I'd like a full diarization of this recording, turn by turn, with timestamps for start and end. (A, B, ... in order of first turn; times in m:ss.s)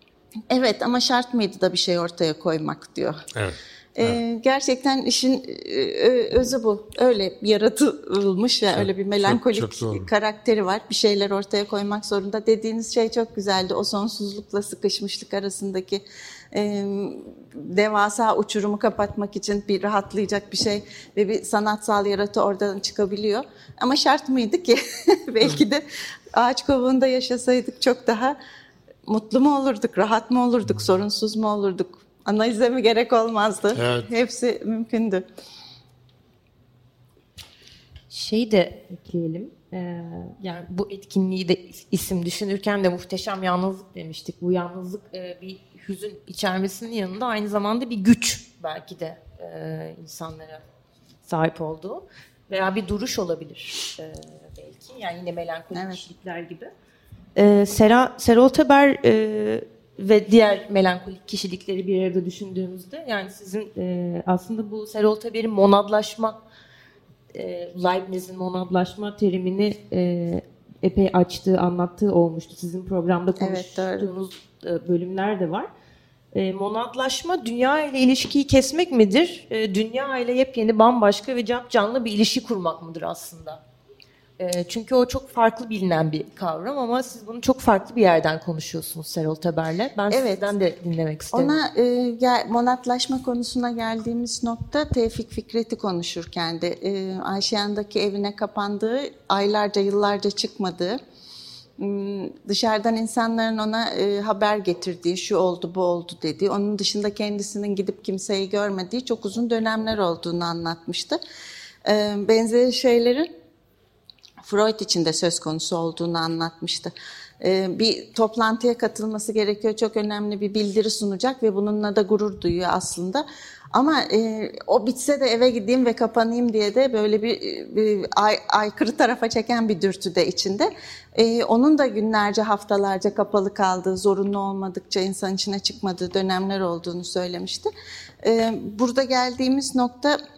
0:00.5-0:03.2 A
0:03.3-0:04.2 B
0:04.0-0:28.4 A
0:08.7-0:10.1 B
0:29.1-0:35.2 A
0:33.8-0:34.1 B
0:38.1-0:50.6 C
0:51.3-0:56.7 C
0:55.7-0:56.0 A
0:57.4-1:06.4 C
1:07.3-1:15.7 C
1:13.4-1:14.1 A
1:16.3-1:23.6 C
1:24.4-1:31.6 C
1:30.1-1:30.5 A
1:31.3-1:41.0 A
1:41.8-1:51.2 A
1:51.9-1:53.3 A
1:54.4-2:17.7 A
2:18.2-2:20.2 A